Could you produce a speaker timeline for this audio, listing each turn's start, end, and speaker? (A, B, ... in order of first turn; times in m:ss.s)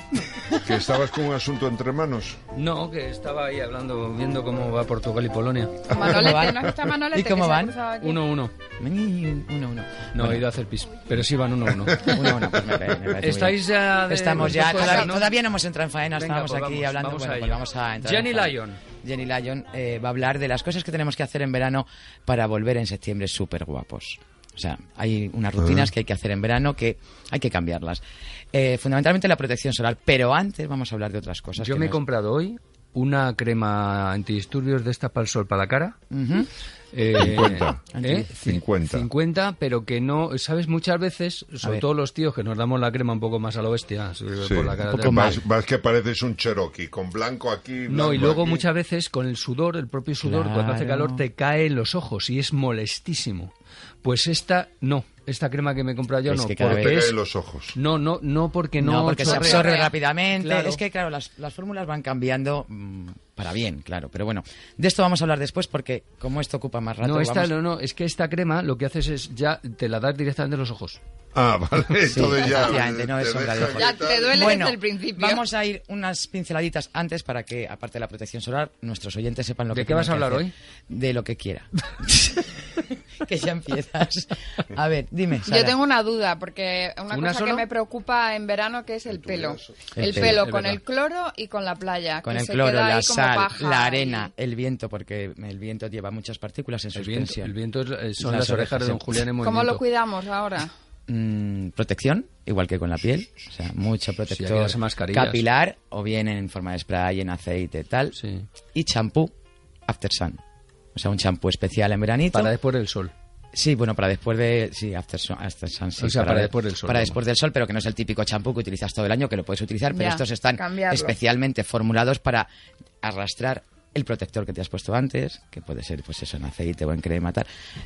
0:00.5-0:02.4 A
0:02.5-0:06.0 B
0:05.9-0:08.2 C
0:06.0-0:07.8 D
0:08.0-0:08.5 B
0:08.8-0:10.4 D
0:10.1-0:12.1 B
0:12.0-0:28.0 D
0:12.0-0:12.5 A
0:13.2-0:15.3 B
0:14.6-0:15.2 C
0:16.2-0:18.8 B
0:28.5-0:32.0 D
0:31.6-0:36.0 B
0:36.1-0:36.5 D
0:36.9-0:45.4 B
0:37.2-0:37.8 A
0:37.9-0:38.3 D
0:38.4-0:39.1 A
0:44.4-0:48.6 A
0:44.8-0:45.4 D
0:47.9-0:53.5 B
0:50.2-0:51.2 D
0:54.0-0:57.2 B
0:56.3-0:57.0 D
0:56.6-0:57.7 A
0:57.7-1:00.8 B
0:58.8-1:07.5 D
0:59.2-0:59.9 C
1:07.0-1:11.0 B
1:11.3-1:14.5 A
1:12.0-1:25.8 D
1:13.8-1:15.4 C
1:19.7-1:20.5 B
1:25.4-1:34.3 C
1:27.1-1:27.6 B
1:29.1-1:30.0 A
1:29.9-1:30.4 D
1:30.1-1:30.8 B
1:32.2-1:37.5 D
1:36.9-1:39.8 B
1:38.2-1:39.2 D
1:39.4-1:40.7 C
1:41.1-1:48.2 D
1:44.3-1:45.4 B
1:48.1-1:48.5 B
1:48.7-1:49.3 D
1:49.9-1:50.4 D
1:51.0-1:52.5 D
1:52.3-1:53.1 B
1:53.5-2:02.5 D
1:56.0-1:57.2 B
1:59.9-2:01.1 C
2:03.0-2:07.5 D